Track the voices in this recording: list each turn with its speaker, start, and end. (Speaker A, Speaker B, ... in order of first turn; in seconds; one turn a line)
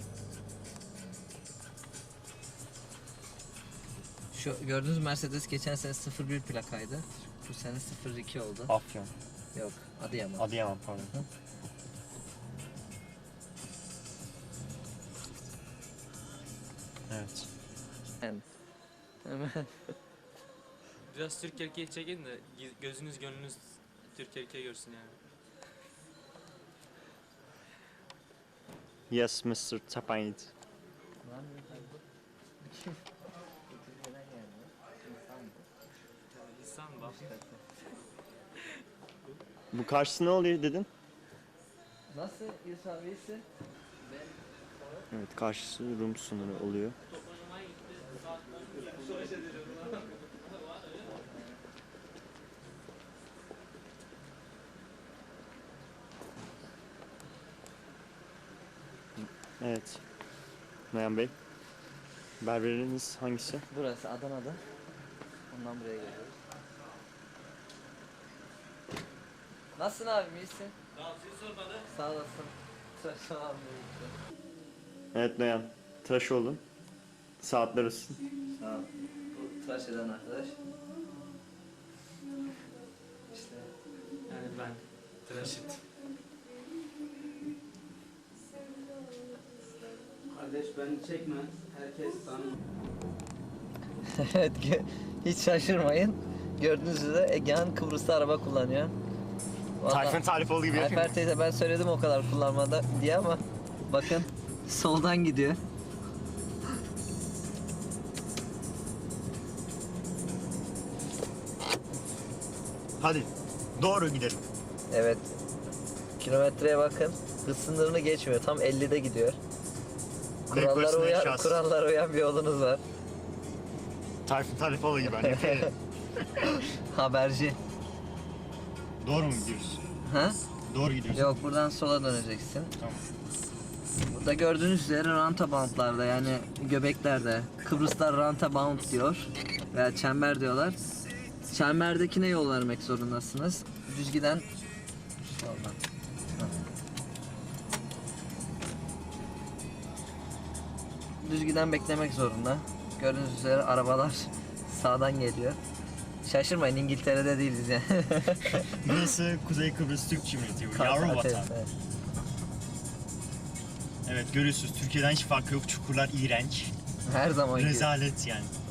Speaker A: 4.3-8.7
Speaker B: 8.7-9.1
Speaker A: 9.5-10.5
Speaker B: 10.4-11.1
Speaker B: 17.1-17.5
Speaker A: 18.2-18.4
Speaker A: 19.2-19.9
Speaker C: 21.1-25.2
Speaker B: 29.1-30.5
Speaker A: 31.2-32.0
Speaker A: 32.6-33.0
Speaker A: 33.6-35.6
Speaker C: 36.3-37.2
Speaker A: 37.0-37.6
Speaker B: 39.7-40.9
Speaker A: 42.1-43.4
Speaker A: 44.0-44.4
Speaker B: 45.1-47.0
Speaker A: 48.4-50.1
Speaker C: 48.4-50.2
Speaker A: 51.1-51.6
Speaker B: 59.2-60.0
Speaker B: 60.9-61.3
Speaker B: 62.4-63.6
Speaker A: 63.7-64.6
Speaker A: 65.5-66.4
Speaker A: 69.7-70.8
Speaker C: 71.0-71.8
Speaker A: 71.8-74.2
Speaker B: 75.1-76.6
Speaker B: 77.4-78.2
Speaker A: 78.6-80.6
Speaker A: 83.3-83.7
Speaker C: 84.3-85.8
Speaker D: 90.3-92.5
Speaker C: 91.0-91.4
Speaker A: 94.0-98.9
Speaker A: 99.8-105.6
Speaker B: 99.9-101.2
Speaker B: 113.0-114.4
Speaker A: 114.9-115.3
Speaker A: 116.2-119.4
Speaker B: 120.5-121.6
Speaker A: 120.5-122.8
Speaker B: 124.2-125.7
Speaker A: 125.1-125.7
Speaker A: 126.2-127.6
Speaker B: 129.0-129.8
Speaker A: 130.0-130.4
Speaker B: 130.7-131.3
Speaker A: 131.2-132.7
Speaker B: 132.8-133.1
Speaker A: 134.1-140.8
Speaker A: 141.5-144.5
Speaker A: 145.2-145.8
Speaker A: 151.2-155.6
Speaker A: 156.2-158.7
Speaker B: 158.6-161.5
Speaker A: 160.7-161.7
Speaker B: 164.0-166.7
Speaker A: 167.1-167.9
Speaker B: 167.5-168.5